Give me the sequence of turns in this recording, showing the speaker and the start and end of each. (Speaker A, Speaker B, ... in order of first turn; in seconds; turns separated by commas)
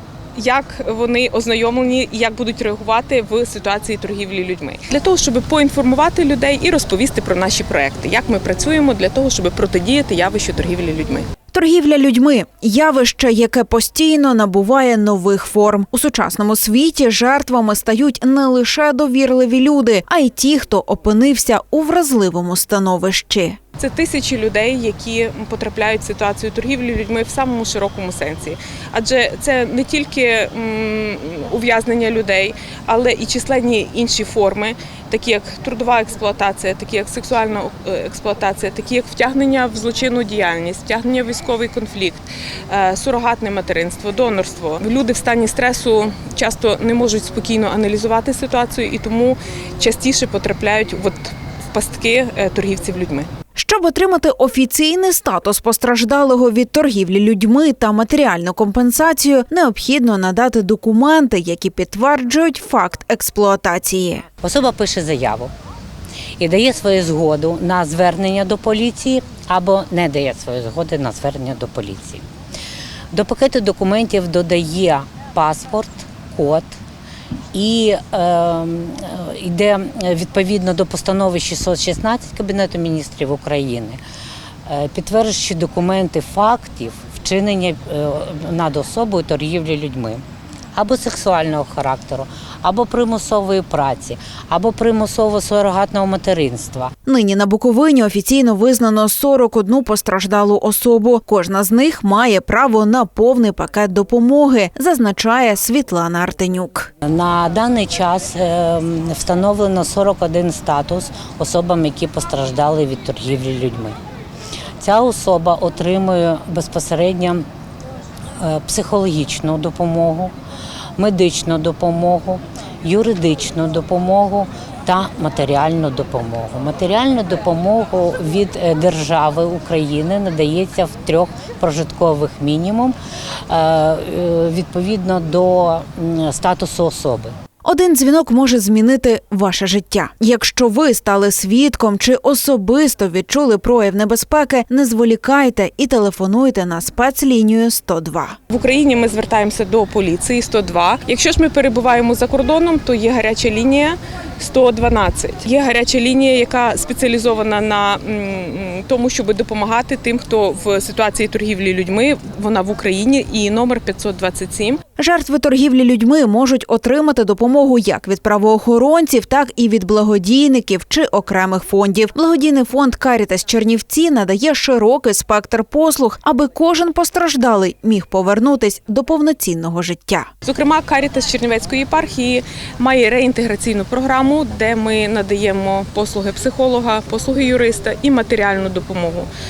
Speaker A: 0.3-11.3, Speaker B: 11.5-23.6, Speaker A: 23.8-53.3, Speaker B: 53.5-64.3, Speaker C: 64.4-65.5, Speaker C: 66.4-72.2, Speaker C: 73.1-76.8, Speaker C: 77.5-84.0, Speaker C: 84.7-90.2, Speaker C: 90.7-96.9, Speaker B: 97.0-106.9, Speaker C: 107.0-114.0, Speaker C: 114.8-117.4, Speaker C: 118.4-120.3, Speaker C: 121.0-132.9, Speaker C: 133.5-137.3, Speaker B: 137.6-148.4, Speaker A: 148.5-164.8, Speaker B: 165.0-180.3, Speaker A: 180.4-189.3